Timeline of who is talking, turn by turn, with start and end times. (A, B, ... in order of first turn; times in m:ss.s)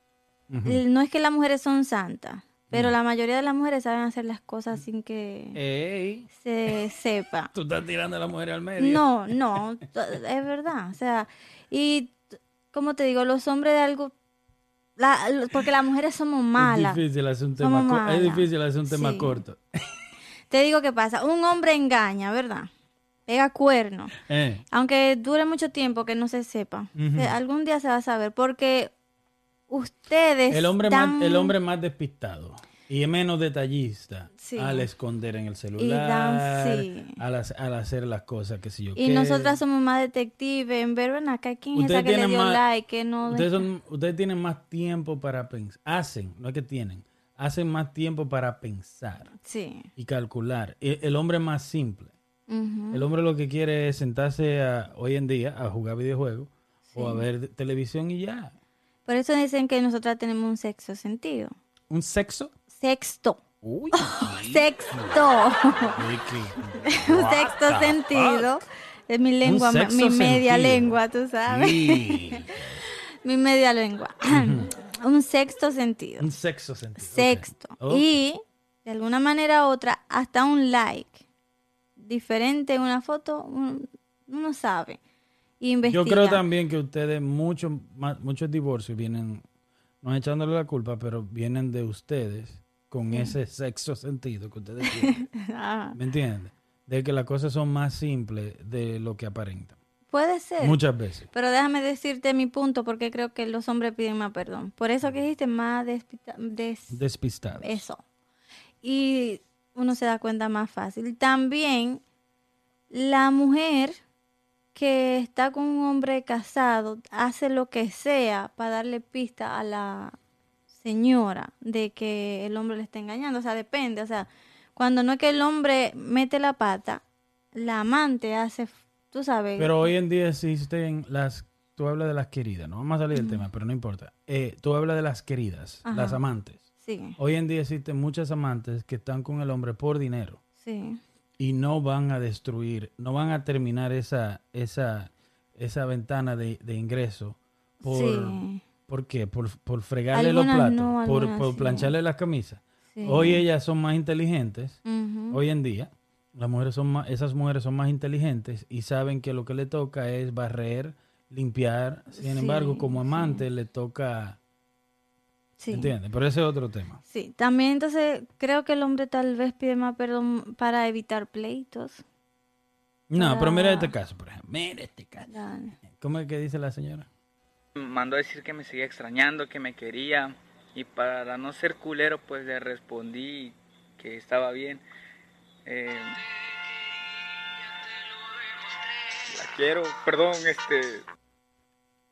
0:00.5-0:00.8 A
0:00.6-0:05.6 B
0:05.6-0:06.3 A
0:06.3-0:07.5 B
0:07.5-0:09.6 A
0:08.8-0:12.2 B
0:12.7-0:14.1 B
0:15.0-0:17.0 B
0:16.6-0:19.6 A
0:17.6-0:19.4 B
0:20.5-0:22.7 B
0:23.3-0:24.2 B
0:24.2-0:24.6 A
0:24.7-0:28.9 B
0:27.0-0:27.4 A
0:29.7-0:31.5 B
0:30.5-0:39.6 A
0:34.4-0:34.9 B
0:35.8-0:37.2 B
0:39.0-0:43.7 B
0:41.8-0:42.6 A
0:43.3-0:49.3 A
0:49.4-0:49.9 B
0:50.0-0:52.2 A
0:52.5-0:53.0 B
0:52.9-0:58.5 A
0:56.9-0:57.3 B
0:59.1-1:01.6 B
1:01.9-1:02.5 A
1:02.7-1:03.4 B
1:03.6-1:05.3 A
1:03.9-1:06.0 B
1:05.9-1:08.5 A
1:06.7-1:16.3 B
1:09.4-1:11.0 A
1:11.5-1:12.8 A
1:14.3-1:14.7 A
1:16.2-1:18.2 A
1:17.0-1:21.2 B
1:22.0-1:25.0 B
1:25.6-1:26.4 B
1:25.8-1:29.4 A
1:30.0-1:35.3 A
1:33.1-1:33.4 B
1:34.8-1:36.0 B
1:36.0-1:39.8 A
1:40.1-1:40.8 B
1:40.6-1:41.3 A
1:41.3-1:47.0 B
1:46.9-1:47.8 A
1:47.6-1:48.0 B
1:48.8-1:52.0 B
1:52.9-1:54.0 B
1:54.8-2:00.2 B
2:00.7-2:07.0 B
2:07.5-2:09.9 B
2:09.6-2:16.7 A
2:13.1-2:13.4 B
2:15.9-2:16.2 B
2:16.8-2:17.2 B
2:17.2-2:20.4 A
2:20.6-2:21.0 B
2:21.4-2:34.8 A
2:27.8-2:28.6 B
2:30.1-2:31.9 B
2:32.9-2:33.4 B
2:34.8-2:35.4 B
2:35.3-2:44.4 A
2:42.2-2:43.4 B
2:45.6-2:45.9 B
2:45.7-2:47.0 A
2:47.1-2:52.0 B
2:53.1-2:57.1 A
2:53.2-2:53.9 B
2:55.3-2:55.8 B
2:57.8-3:04.8 C
3:05.6-3:06.2 C
3:09.3-3:11.0 C